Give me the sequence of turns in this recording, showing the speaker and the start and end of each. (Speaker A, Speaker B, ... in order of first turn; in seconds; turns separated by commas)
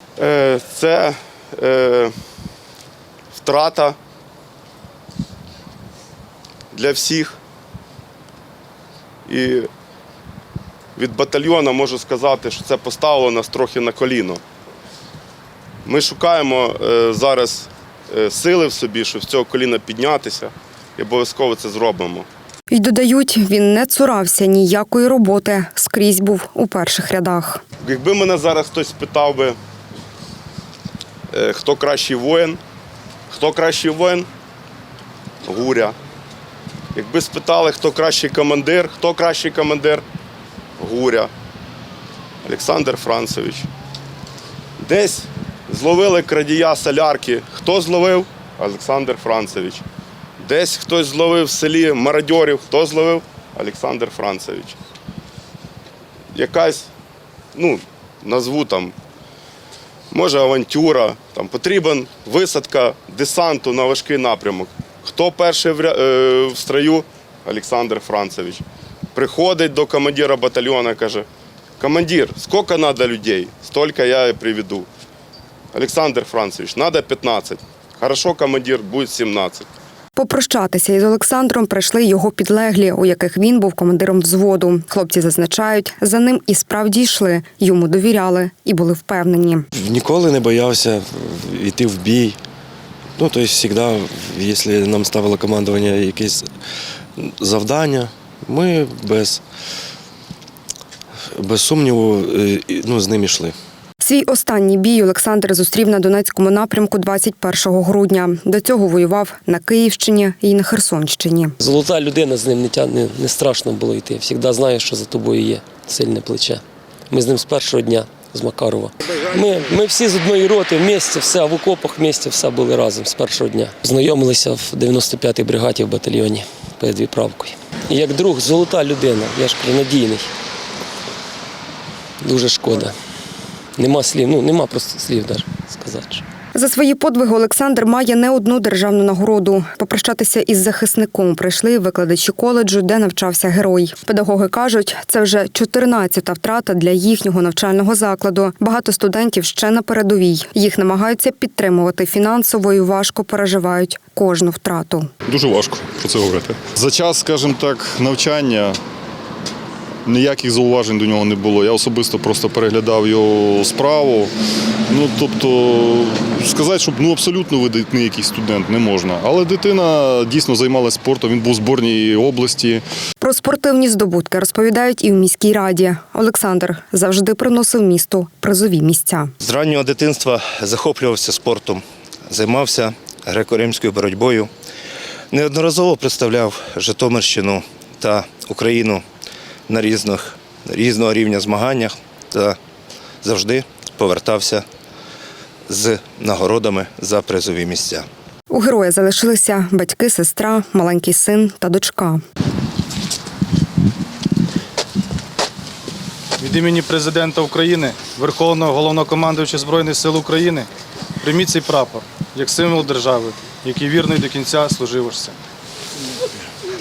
Speaker A: 0.2-2.1, Speaker A: 3.3-4.0, Speaker A: 6.7-7.4, Speaker A: 9.3-9.7, Speaker A: 10.9-14.4, Speaker A: 15.8-22.3, Speaker B: 22.7-27.6, Speaker A: 27.8-29.6, Speaker A: 31.3-32.6, Speaker A: 33.3-34.3, Speaker A: 35.4-35.9, Speaker A: 36.9-40.0, Speaker A: 40.8-41.3, Speaker A: 42.4-43.7, Speaker A: 44.8-49.8, Speaker A: 50.4-54.8, Speaker A: 56.3-56.9, Speaker A: 57.5-58.9, Speaker A: 60.1-68.6, Speaker A: 69.1-71.3, Speaker A: 71.8-74.9, Speaker A: 75.7-79.7, Speaker B: 80.2-89.7, Speaker C: 89.7-92.4, Speaker C: 93.2-96.5, Speaker C: 97.2-99.4, Speaker C: 101.3-103.5, Speaker B: 104.0-111.5, Speaker D: 111.6-130.3, Speaker D: 132.2-132.9, Speaker D: 133.8-136.2, Speaker B: 136.5-155.1, Speaker E: 155.3-158.8, Speaker E: 160.1-164.3, Speaker E: 164.9-172.8, Speaker B: 173.2-179.3, Speaker F: 179.4-184.5, Speaker F: 185.3-189.0, Speaker F: 189.7-192.6, Speaker F: 193.2-194.6, Speaker F: 195.7-198.1, Speaker B: 198.5-202.2, Speaker G: 206.4-210.7, Speaker G: 211.2-215.3